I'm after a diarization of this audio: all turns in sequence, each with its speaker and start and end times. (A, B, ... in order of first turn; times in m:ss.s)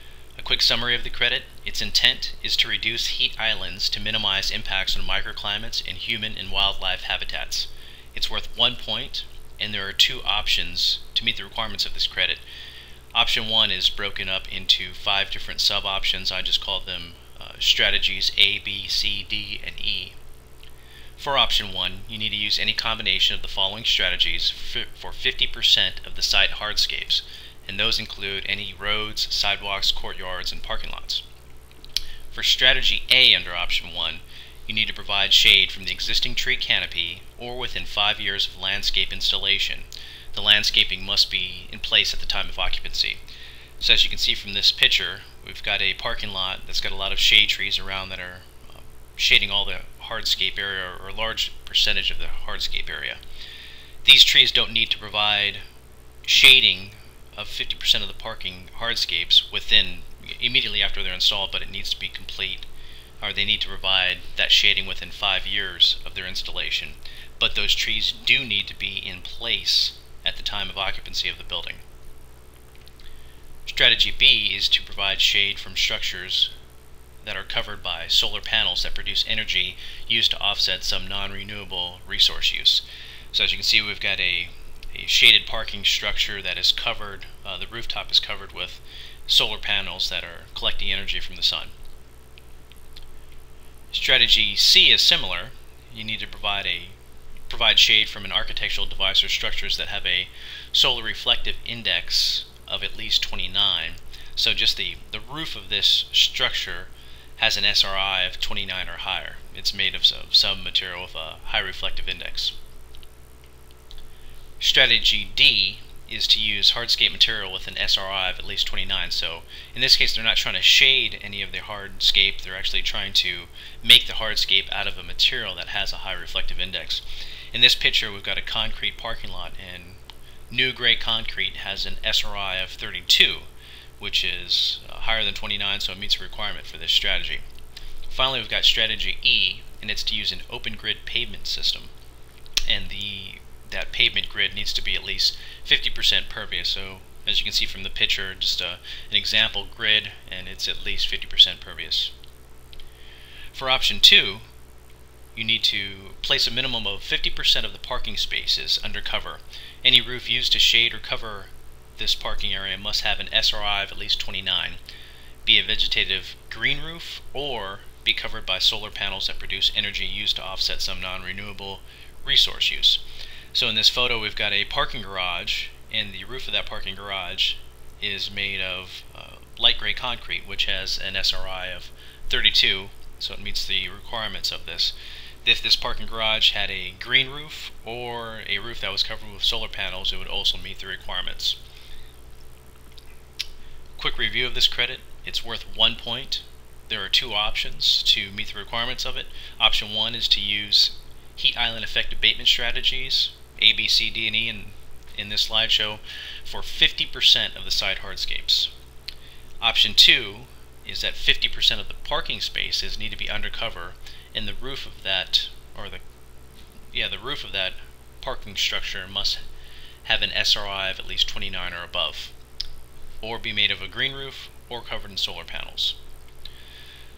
0:00.4-0:12.4 A
0:13.1-0:20.2 A
0:21.2-0:31.2 A
0:32.3-0:43.2 A
0:43.8-0:53.2 A
0:54.0-0:55.6 A
0:56.2-1:02.7 A
1:03.2-1:11.8 A
1:13.6-1:16.5 A
1:17.2-1:31.7 A
1:33.9-1:37.0 A
1:37.5-1:52.5 A
1:54.6-2:13.5 A
2:14.0-2:17.4 A
2:18.1-2:21.9 A
2:22.7-2:32.1 A
2:33.5-2:34.5 A
2:35.3-2:44.8 A
2:45.4-2:53.0 A
2:53.5-3:11.6 A
3:14.0-3:28.7 A
3:29.6-3:36.0 A
3:36.9-3:39.4 A
3:40.0-3:42.3 A
3:43.2-3:46.0 A